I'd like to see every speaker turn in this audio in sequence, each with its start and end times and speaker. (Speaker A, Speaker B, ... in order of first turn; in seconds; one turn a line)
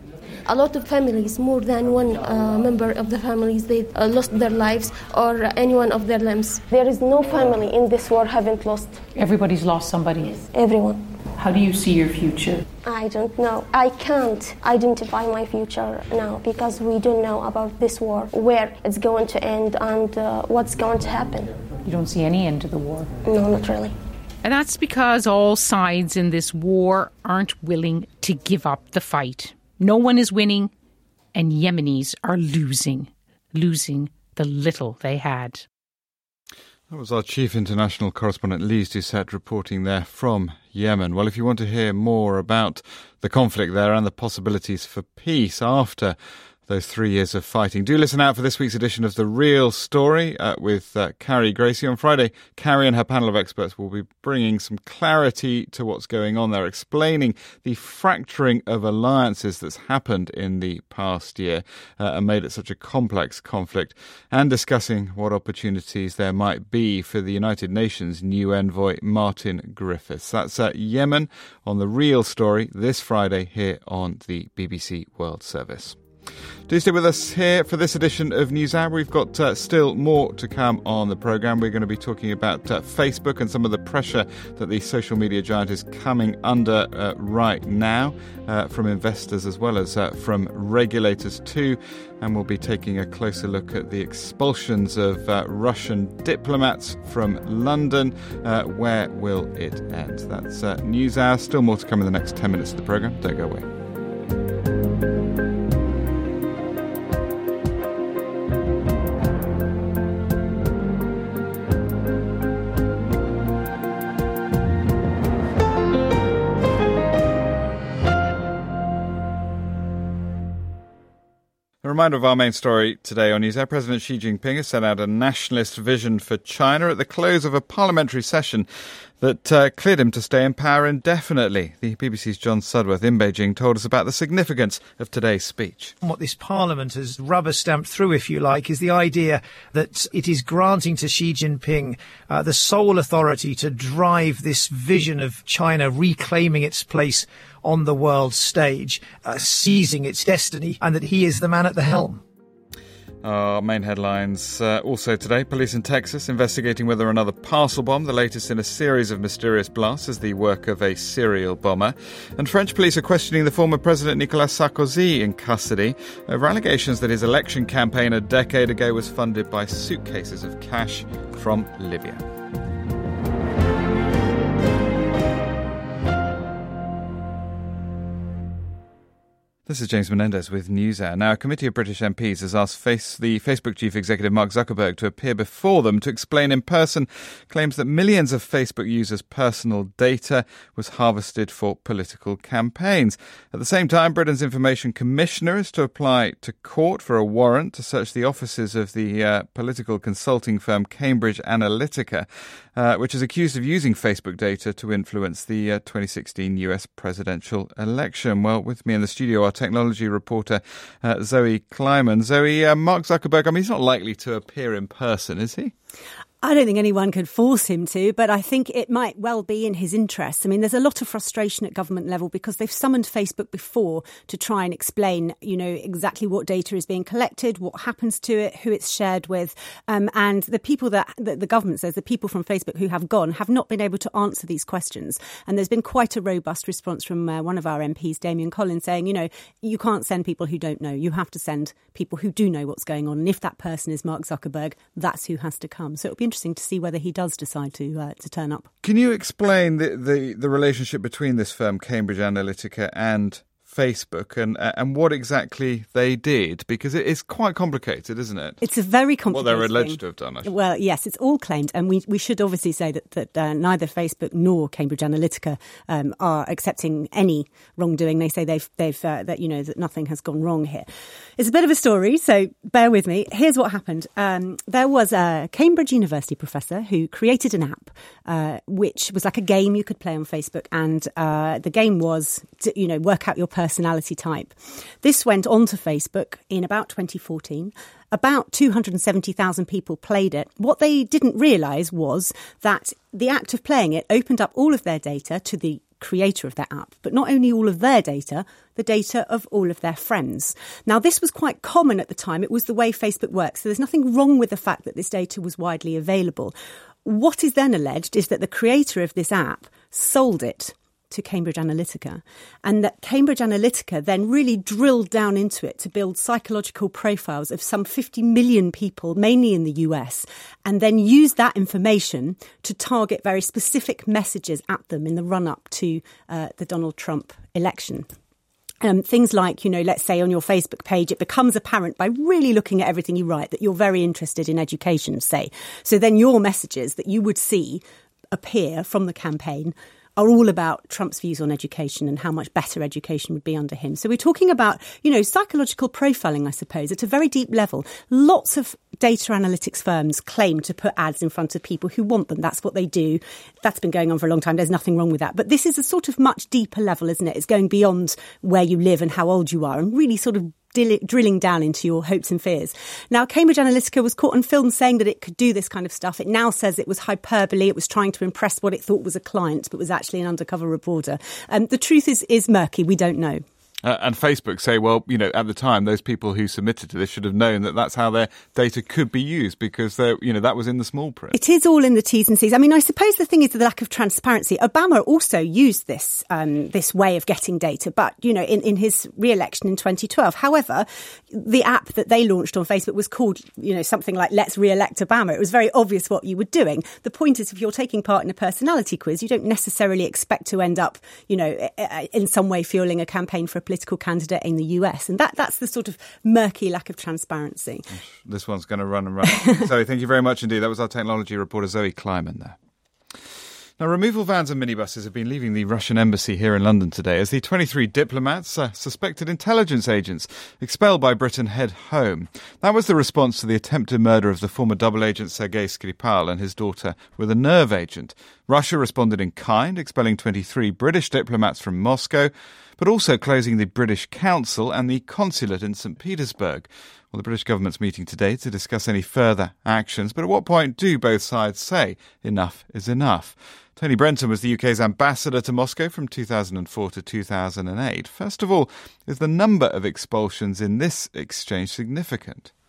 Speaker A: 0.5-9.0
Speaker B: 9.1-10.4
Speaker A: 10.4-11.0
Speaker B: 11.4-12.6
Speaker A: 12.8-21.5
Speaker B: 21.9-23.2
Speaker A: 23.2-23.9
Speaker B: 24.4-30.7
Speaker B: 31.4-35.6
Speaker C: 36.9-46.2
Speaker C: 46.7-76.0
Speaker C: 76.7-103.6
Speaker C: 121.8-128.7
Speaker C: 129.2-135.9
Speaker D: 136.0-152.2
Speaker C: 153.2-172.2
Speaker C: 179.7-215.7
Speaker E: 216.4-248.7
Speaker C: 248.8-258.6
Speaker E: 258.6-270.9
Speaker C: 259.3-260.5
Speaker E: 271.4-306.5
Speaker E: 307.1-328.1
Speaker E: 328.8-373.4
Speaker C: 373.8-381.4
Speaker E: 381.3-407.9
Speaker C: 407.9-412.6
Speaker C: 413.8-452.5